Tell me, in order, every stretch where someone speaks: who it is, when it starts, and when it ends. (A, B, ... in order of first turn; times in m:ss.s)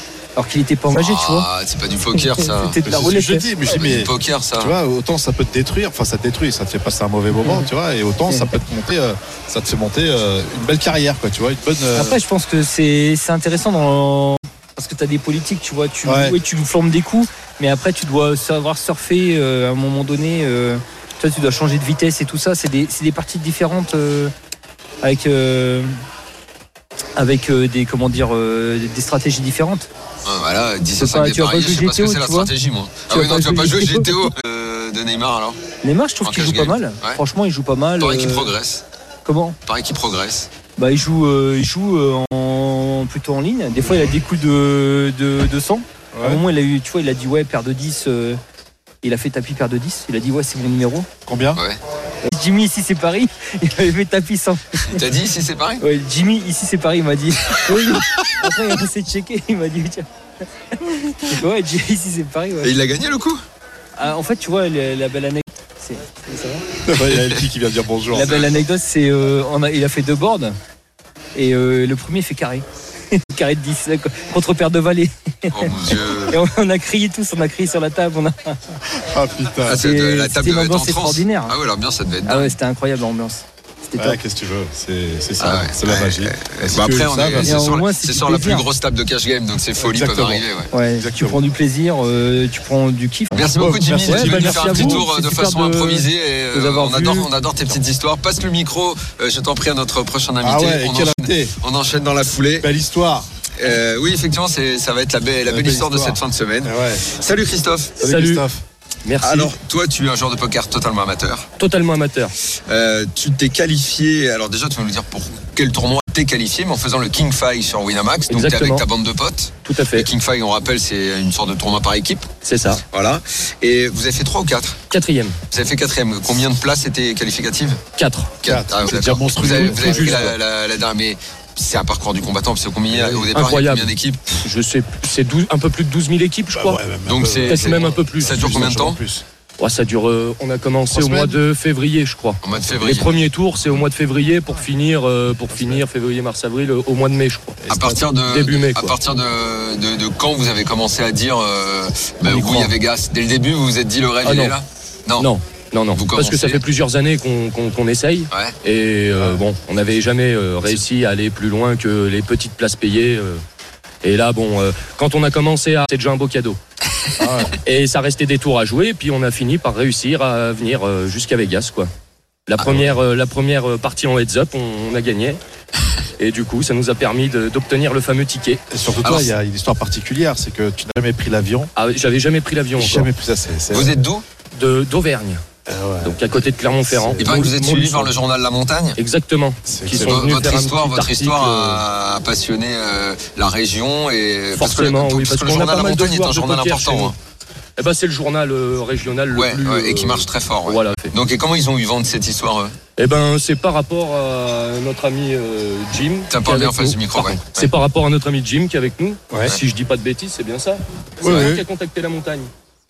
0:00.4-0:01.5 A
0:00.9-0:02.8 B
0:02.1-0:03.5 A
0:02.8-0:12.2 C
0:03.7-0:04.8 B
0:07.3-0:07.7 A
0:08.2-0:08.5 A
0:11.9-0:24.3 A
0:16.1-0:16.4 C
0:25.0-0:25.9 A
0:27.2-0:29.9 A
0:30.2-0:35.6 B
0:31.0-0:32.5 A
0:33.1-0:34.1 A
0:35.8-0:38.5 A
0:36.2-0:37.2 B
0:38.0-0:38.8 B
0:39.2-0:39.6 A
0:39.7-0:40.5 B
0:40.8-0:48.4 A
0:43.8-0:44.2 C
0:46.2-0:46.4 C
0:49.0-0:51.1 A
0:51.3-0:51.6 C
0:52.2-0:55.0 A
0:54.9-0:55.8 B
0:55.8-1:00.1 A
1:00.7-1:02.8 A
1:02.6-1:03.4 B
1:04.0-1:06.6 A
1:06.9-1:08.3 C
1:08.1-1:10.6 A
1:08.1-1:08.6 B
1:11.4-1:18.6 A
1:15.5-1:16.4 B
1:18.9-1:19.9 C
1:19.6-1:22.6 B
1:19.7-1:21.5 A
1:22.3-1:24.2 A
1:24.0-1:27.6 C
1:25.4-1:30.7 B
1:27.4-1:28.7 A
1:29.8-1:31.4 C
1:30.7-1:33.5 A
1:33.3-1:42.7 B
1:33.5-1:35.1 C
1:34.1-1:37.3 A
1:40.4-1:41.5 C
1:42.6-1:43.3 C
1:43.6-1:48.0 B
1:45.5-1:47.1 C
1:48.0-1:48.4 D
1:48.0-1:48.6 C
1:49.0-1:49.6 D
1:49.2-1:51.5 B
1:51.6-1:52.3 D
1:52.7-2:04.8 B
1:58.3-1:58.8 D
1:59.6-2:00.1 D
2:02.4-2:02.8 D
2:04.9-2:05.4 D
2:05.5-2:07.8 B
2:08.0-2:08.3 D
2:08.4-2:14.4 B
2:08.4-2:10.4 C
2:09.4-2:10.3 D
2:12.9-2:13.3 C
2:13.3-2:13.9 D
2:14.4-2:16.8 D
2:16.5-2:19.2 C
2:17.0-2:19.0 B
2:17.4-2:18.9 D
2:19.6-2:27.6 D
2:20.9-2:21.4 C
2:22.4-2:23.1 B
2:25.5-2:25.8 C
2:27.6-2:28.1 C
2:27.7-2:35.3 B
2:28.3-2:29.0 D
2:32.3-2:32.7 C
2:32.3-2:32.6 D
2:34.2-2:34.6 D
2:35.2-2:43.4 D
2:35.9-2:36.6 B
2:44.0-2:46.6 D
2:47.2-2:47.6 C
2:47.6-2:51.9 D
2:52.5-2:55.4 D
2:52.6-2:52.9 B
2:56.2-2:58.6 D
2:58.7-3:01.7 C
2:59.0-2:59.3 B
3:01.8-3:03.1 D
3:02.8-3:03.9 C
3:03.7-3:04.2 B
3:04.6-3:05.4 D
3:05.7-3:07.4 C
3:06.0-3:08.1 D
3:07.2-3:09.0 B
3:09.0-3:11.8 D
3:09.6-3:10.4 C
3:09.9-3:17.2 B
3:14.6-3:17.2 D
3:17.8-3:21.2 D
3:19.3-3:22.8 B
3:23.0-3:32.5 D
3:26.3-3:27.7 B
3:31.2-3:31.5 B
3:31.2-3:31.6 C